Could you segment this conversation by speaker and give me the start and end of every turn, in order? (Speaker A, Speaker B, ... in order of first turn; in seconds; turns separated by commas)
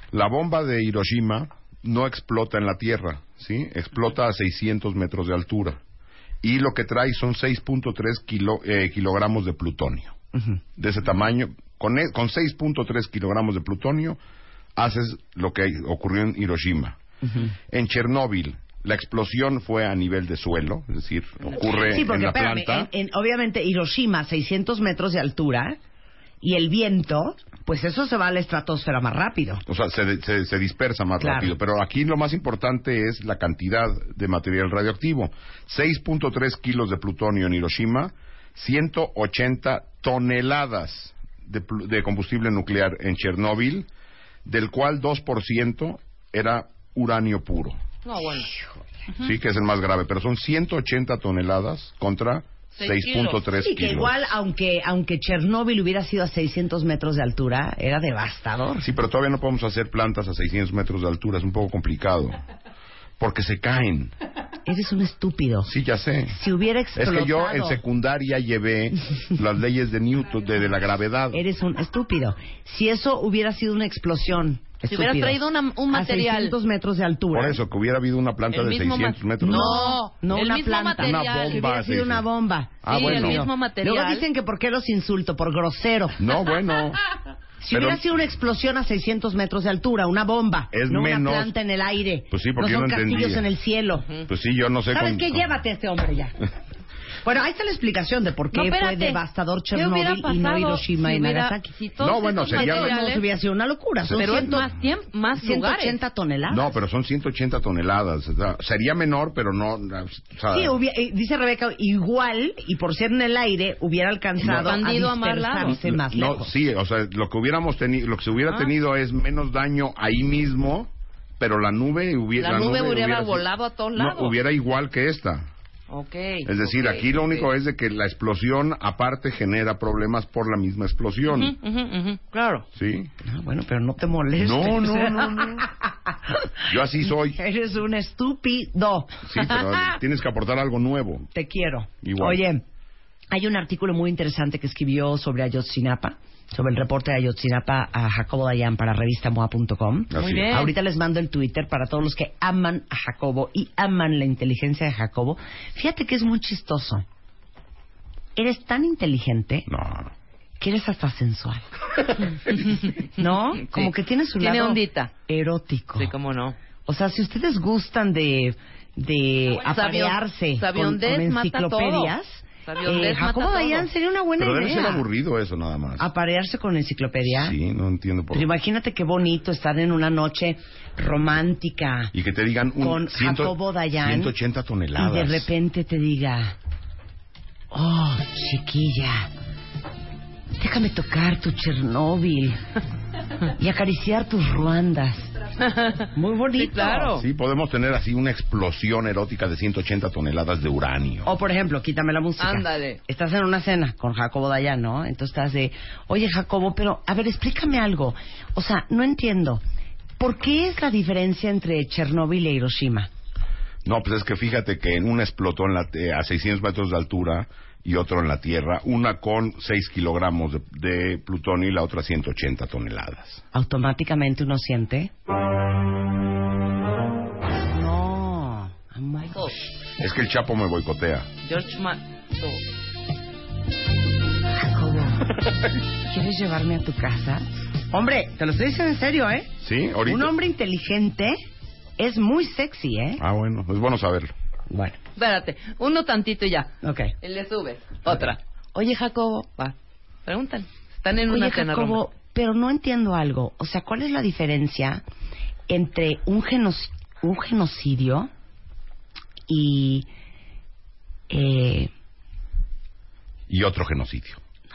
Speaker A: 0.1-5.8, Speaker A: 6.4-10.2, Speaker A: 10.8-14.2, Speaker A: 14.8-17.0, Speaker B: 17.3-17.5, Speaker A: 17.7-22.9, Speaker C: 21.6-21.9, Speaker B: 21.7-25.8, Speaker B: 26.4-29.6, Speaker A: 29.7-43.9, Speaker B: 31.2-31.5, Speaker A: 44.5-47.8, Speaker C: 48.0-48.5, Speaker A: 49.2-54.4, Speaker C: 52.8-53.4, Speaker B: 53.6-58.9, Speaker A: 58.8-62.4, Speaker A: 63.2-64.1, Speaker B: 64.7-65.7, Speaker A: 65.7-66.4, Speaker B: 66.3-67.8, Speaker A: 67.0-71.4, Speaker B: 71.3-77.6, Speaker C: 74.9-76.6, Speaker A: 77.3-79.9, Speaker C: 78.5-81.7, Speaker B: 79.4-86.2, Speaker A: 81.0-82.2, Speaker A: 82.8-83.5, Speaker C: 82.9-84.3, Speaker A: 86.2-87.0, Speaker B: 87.6-94.2, Speaker A: 87.7-88.0, Speaker A: 90.7-91.5, Speaker A: 92.3-93.5, Speaker A: 94.3-95.5, Speaker B: 94.9-96.4, Speaker B: 97.2-101.7, Speaker C: 98.5-99.2, Speaker C: 99.7-103.3, Speaker A: 102.0-103.0, Speaker B: 102.5-104.7, Speaker A: 104.0-104.7, Speaker C: 104.2-106.0, Speaker B: 105.4-106.7, Speaker A: 106.5-110.8, Speaker B: 110.5-116.5, Speaker A: 114.4-114.8, Speaker C: 114.4-115.8, Speaker A: 115.7-125.5, Speaker C: 122.4-124.3, Speaker C: 125.9-127.5, Speaker A: 126.5-131.6, Speaker C: 131.3-132.7, Speaker A: 132.7-133.1, Speaker B: 133.2-136.5, Speaker A: 134.4-135.7, Speaker A: 136.7-137.4, Speaker B: 137.3-139.2, Speaker A: 139.2-141.3, Speaker B: 141.3-142.6, Speaker A: 142.0-142.4, Speaker B: 143.3-157.1, Speaker A: 150.1-150.7, Speaker C: 150.2-150.7, Speaker B: 158.4-159.7, Speaker A: 159.7-160.1, Speaker B: 160.6-161.6, Speaker B: 163.2-166.1, Speaker C: 163.6-165.1, Speaker C: 166.0-166.6, Speaker B: 166.9-175.1, Speaker C: 169.5-173.9, Speaker A: 174.4-176.1, Speaker B: 176.0-177.6, Speaker A: 177.3-178.5, Speaker B: 178.3-182.1, Speaker A: 182.1-185.5, Speaker B: 182.8-184.3, Speaker B: 185.0-186.6, Speaker B: 187.7-189.3, Speaker B: 190.6-192.6, Speaker B: 193.6-195.3, Speaker C: 195.6-197.2, Speaker B: 196.2-197.2, Speaker A: 197.1-201.3, Speaker B: 201.2-209.6, Speaker C: 202.4-203.0, Speaker B: 210.2-213.1, Speaker A: 213.8-223.4, Speaker B: 223.5-225.1, Speaker B: 227.7-229.6, Speaker A: 230.0-231.3, Speaker C: 231.4-232.6, Speaker B: 234.6-235.4, Speaker B: 236.1-239.5, Speaker A: 239.6-240.3, Speaker B: 240.1-241.4, Speaker B: 242.0-243.2, Speaker A: 243.2-244.3, Speaker B: 244.7-245.0, Speaker C: 245.2-249.8, Speaker B: 246.8-247.1, Speaker C: 250.3-252.0, Speaker B: 251.3-255.0, Speaker B: 255.7-258.3, Speaker B: 259.5-260.1, Speaker B: 261.3-261.9, Speaker A: 263.5-264.4